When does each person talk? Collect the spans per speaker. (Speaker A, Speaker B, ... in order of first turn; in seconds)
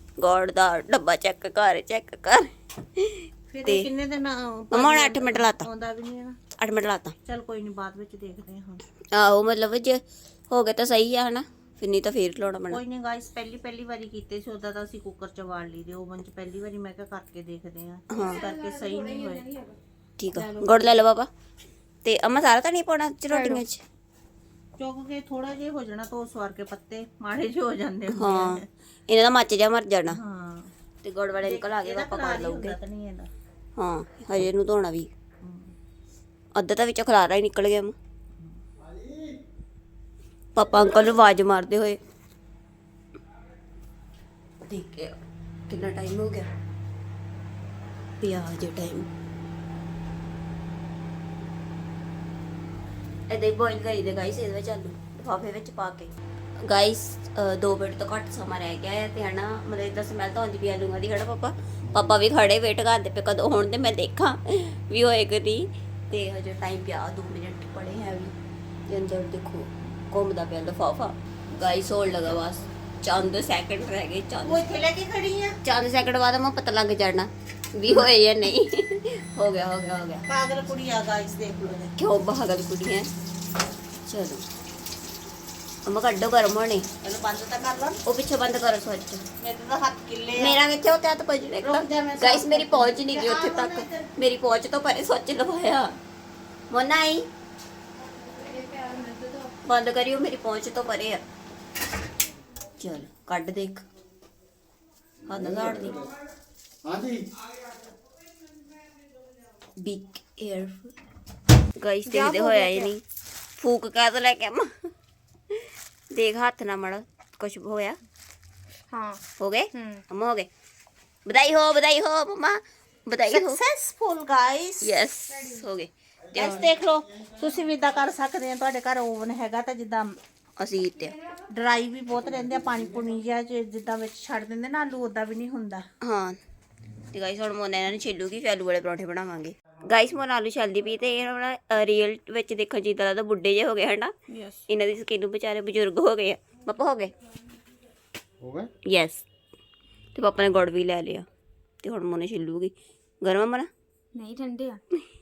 Speaker A: 0.2-3.9, 4.7-5.7, 6.6-7.1, 9.1-12.8, 18.1-18.4, 20.2-21.3, 22.0-23.8, 28.1-30.2, 31.0-32.8, 33.8-35.1, 36.5-37.9, 40.5-42.0, 44.6-45.1, 45.7-46.5, 48.2-49.1, 53.3-56.1, 56.6-68.3, 68.9-74.6, 75.6-80.2, 82.0-83.1, 84.1-84.4, 85.8-86.9, 88.0-89.2, 90.3-96.0, 96.7-97.2, 99.7-101.2, 102.8-103.8, 105.3-106.0, 109.8-110.9, 111.8-113.0, 113.6-114.8, 115.5-118.0, 119.4-120.5, 121.2-123.6, 124.8-126.6, 130.6-131.2, 136.0-136.4, 137.1-144.1, 144.7-147.1, 148.9-149.2, 150.1-151.2, 151.8-153.7
Speaker B: 3.5-6.4, 7.2-8.8, 12.7-19.4, 20.3-21.0, 24.8-28.7, 30.1-30.7, 31.4-33.3, 35.4-35.7, 74.4-75.5, 80.3-81.9, 87.0-88.0, 89.4-90.6, 91.6-94.1, 123.3-124.9, 126.3-130.2, 131.5-135.8
Speaker C: 18.1-19.8, 23.3-23.6, 98.3-99.5, 112.0-112.9, 118.9-119.2, 119.7-120.0, 125.3-125.7, 154.1-154.8
Speaker D: 38.8-39.4, 61.9-62.2, 105.2-106.1, 106.8-107.3, 126.3-126.8, 148.4-148.7